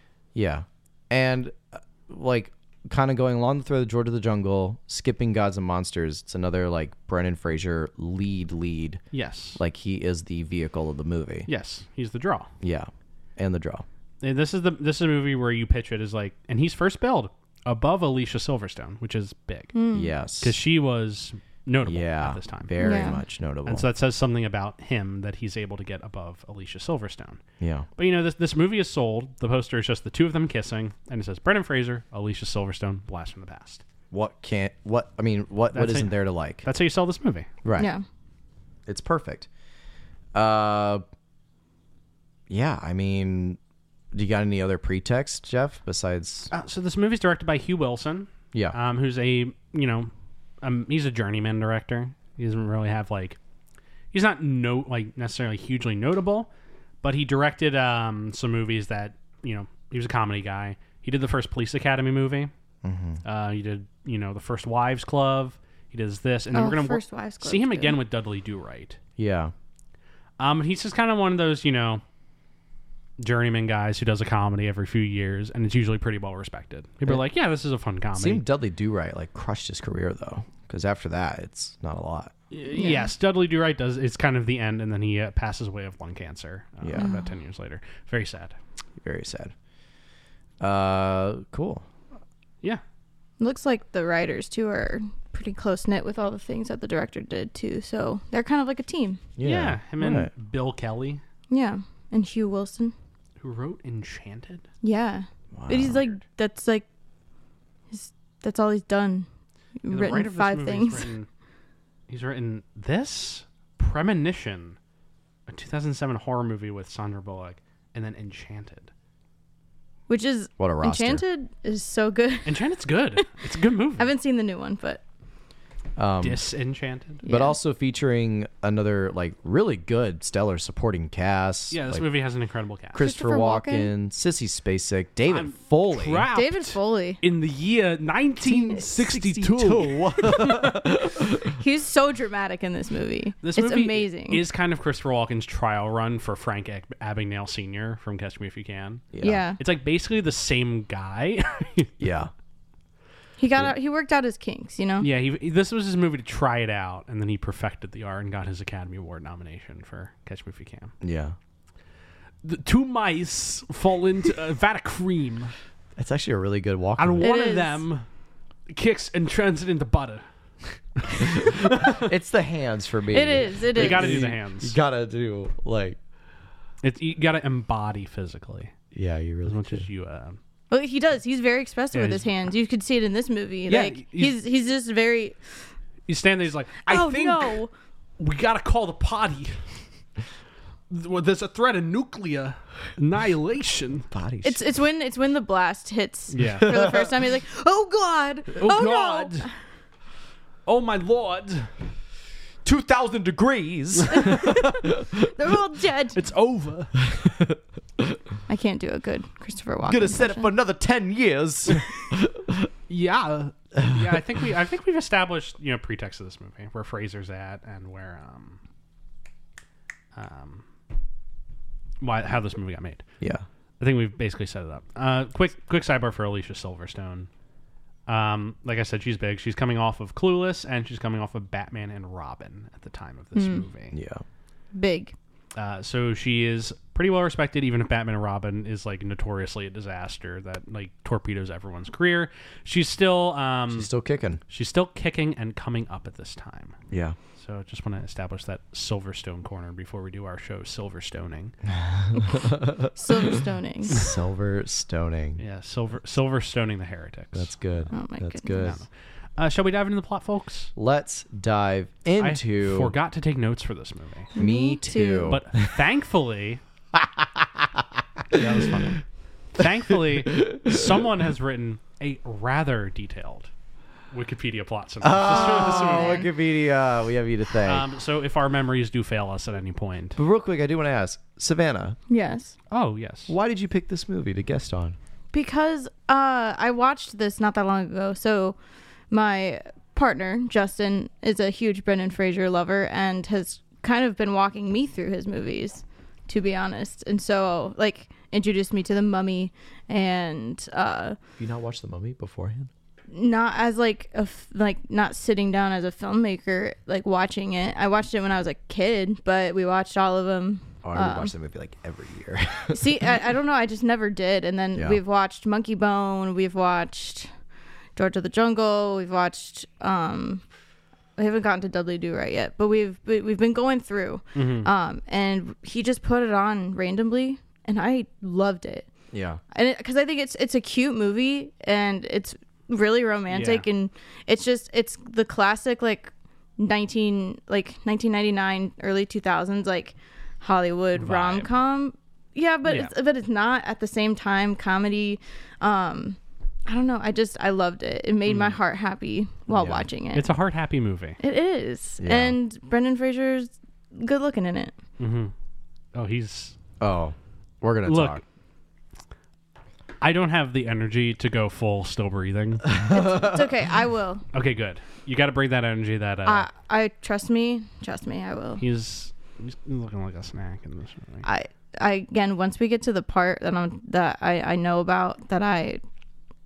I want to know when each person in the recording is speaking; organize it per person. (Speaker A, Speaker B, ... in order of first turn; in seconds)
Speaker A: 0.3-9.0, 9.6-11.5, 12.6-13.8, 19.9-20.6, 21.9-23.9, 27.6-27.9, 34.1-36.6, 37.6-37.9, 38.9-39.5, 40.3-41.0, 42.5-43.6, 44.1-46.5, 62.8-63.2, 69.2-69.5, 78.2-82.3, 86.8-87.1, 89.0-89.5, 90.6-91.8, 99.4-100.3, 105.5-106.0, 120.6-121.2, 126.0-126.4, 127.2-132.1, 132.9-136.3, 138.9-141.5, 149.1-149.4, 152.0-152.3, 161.0-161.3, 166.0-167.3, 171.8-176.0, 178.9-179.8, 194.1-194.6, 196.6-197.1, 202.7-205.3, 207.0-208.2, 209.9-212.7, 213.8-214.2, 233.9-234.2, 243.7-244.4, 246.9-247.2, 251.7-253.4, 253.9-255.4, 257.3-258.8, 260.8-262.9, 264.4-265.8, 267.0-267.8, 270.3-270.8, 275.0-277.9, 280.2-282.0, 283.3-285.0, 301.4-302.7, 310.8-313.1, 314.8-315.0, 329.1-329.4, 349.5-349.9, 352.0-352.4, 356.8-358.2, 362.7-363.4
Speaker B: 9.1-9.6, 11.5-12.5, 14.2-19.7, 20.4-23.1, 23.7-27.4, 28.0-33.8, 35.7-37.5, 46.5-50.1, 50.6-53.4, 54.1-56.5, 57.0-62.5, 63.2-69.0, 70.4-72.0, 73.2-78.4, 82.5-88.6, 99.4-101.2, 103.4-104.7, 109.9-111.3, 112.1-114.8, 115.5-118.9, 122.5-124.1, 126.2-127.2, 131.7-133.0, 135.3-140.9, 143.4-149.1, 149.6-151.9, 155.0-160.9, 162.4-165.5, 167.0-168.1, 168.7-172.0, 173.6-174.8, 176.8-178.7, 179.4-180.4, 181.9-182.3, 183.7-184.4, 186.1-187.6, 188.2-189.8, 190.9-194.1, 196.3-196.8, 198.5-199.5, 200.7-201.7, 204.0-204.2, 206.1-207.0, 212.9-218.6, 220.2-220.7, 222.0-223.0, 223.8-227.3, 228.1-234.0, 235.6-243.9, 244.5-246.8, 247.4-251.6, 255.4-257.5, 258.6-260.7, 262.2-264.3, 265.3-266.6, 268.3-273.5, 274.1-276.2, 277.6-280.2, 282.7-283.3, 324.4-324.7, 333.3-333.7, 340.9-341.5, 342.6-342.9, 348.3-348.6, 350.1-351.2, 355.0-355.3, 355.9-356.6, 357.9-358.2, 360.0-362.7, 364.3-366.5, 368.6-371.3
Speaker C: 19.7-20.1, 22.8-23.2, 37.8-38.0, 66.5-68.0, 82.7-83.1, 87.0-87.3, 93.4-99.2, 101.5-102.9, 104.8-106.9, 107.9-109.3, 109.8-111.1, 120.1-122.6, 124.0-125.0, 127.2-127.6, 133.0-133.9, 136.3-137.2, 138.5-138.9, 141.5-144.4, 149.2-149.6, 153.4-155.1, 167.2-167.8, 173.1-174.2, 180.7-185.4, 186.9-187.7, 194.4-199.5, 204.1-206.2, 208.5-210.5, 233.3-233.7, 234.7-235.1, 252.9-254.1, 257.9-258.7, 264.4-265.4, 275.3-276.3, 282.1-282.6, 285.3-288.6, 289.1-301.2, 303.1-311.3, 312.7-317.3, 318.0-320.4, 321.2-328.9, 329.5-350.3, 351.2-354.7, 362.9-364.2, 366.3-368.6, 371.2-375.8